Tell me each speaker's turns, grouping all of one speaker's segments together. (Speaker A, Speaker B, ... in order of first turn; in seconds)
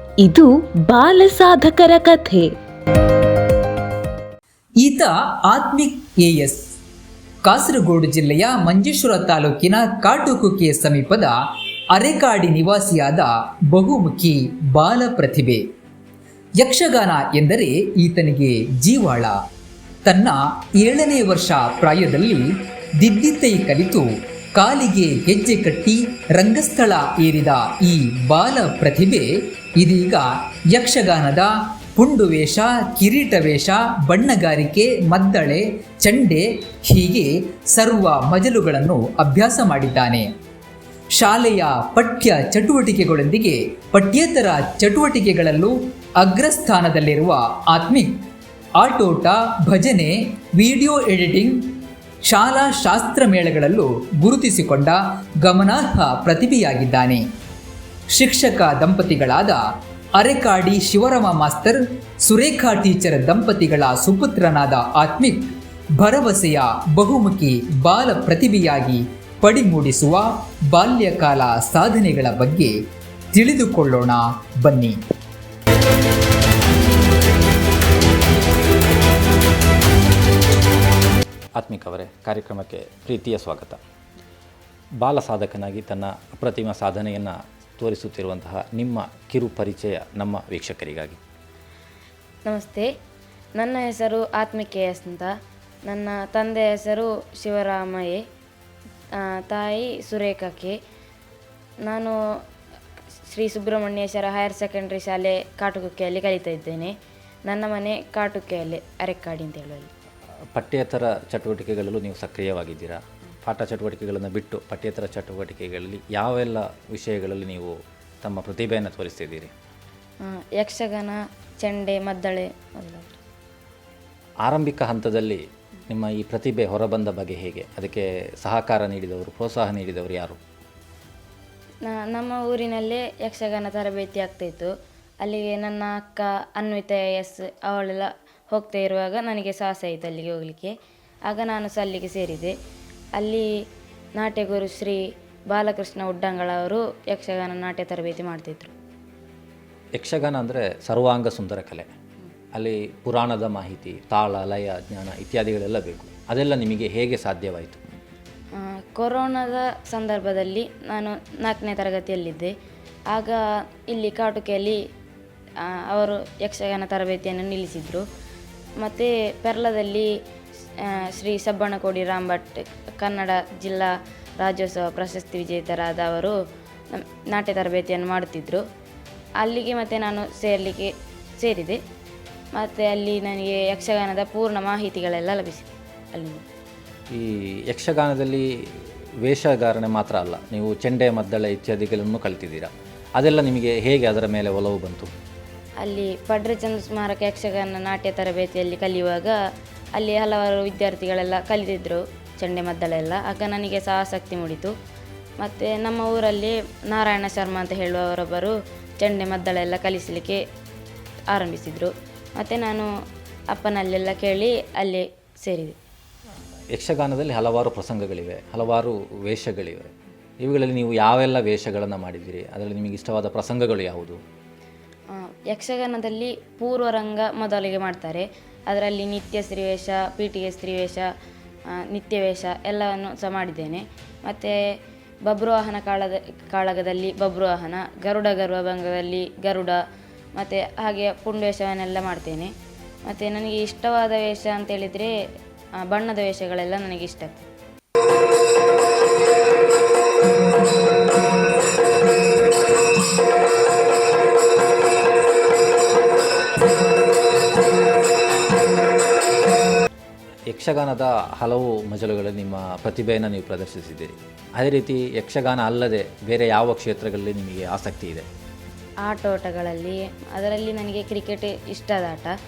Speaker A: 0.2-2.5
Speaker B: 4.8-6.7, 7.5-11.3, 11.9-15.6, 16.6-19.4, 20.1-40.3, 41.2-48.1, 48.8-51.6, 52.2-57.2, 58.1-59.6, 60.2-72.8, 73.3-75.0
Speaker C: 81.6-83.8, 85.0-91.2, 110.5-119.5, 124.4-130.4, 150.0-151.9, 152.6-157.8, 187.1-195.1, 216.7-224.2, 260.5-268.3
Speaker D: 92.5-92.9, 93.6-95.3, 95.9-98.2, 99.2-100.8, 101.8-102.2, 103.3-106.9, 107.5-109.9, 120.2-123.2, 131.8-140.7, 141.3-142.6, 143.2-143.5, 144.2-145.0, 145.5-148.7, 158.6-162.5, 163.1-164.8, 165.7-168.0, 168.8-170.1, 170.8-176.3, 176.9-178.6, 179.4-181.8, 182.6-186.4, 195.8-199.4, 200.0-204.7, 205.4-210.4, 211.3-212.9, 213.5-215.8, 225.2-231.1, 231.8-234.6, 235.3-239.8, 240.4-242.5, 243.1-245.1, 245.8-247.5, 269.0-272.3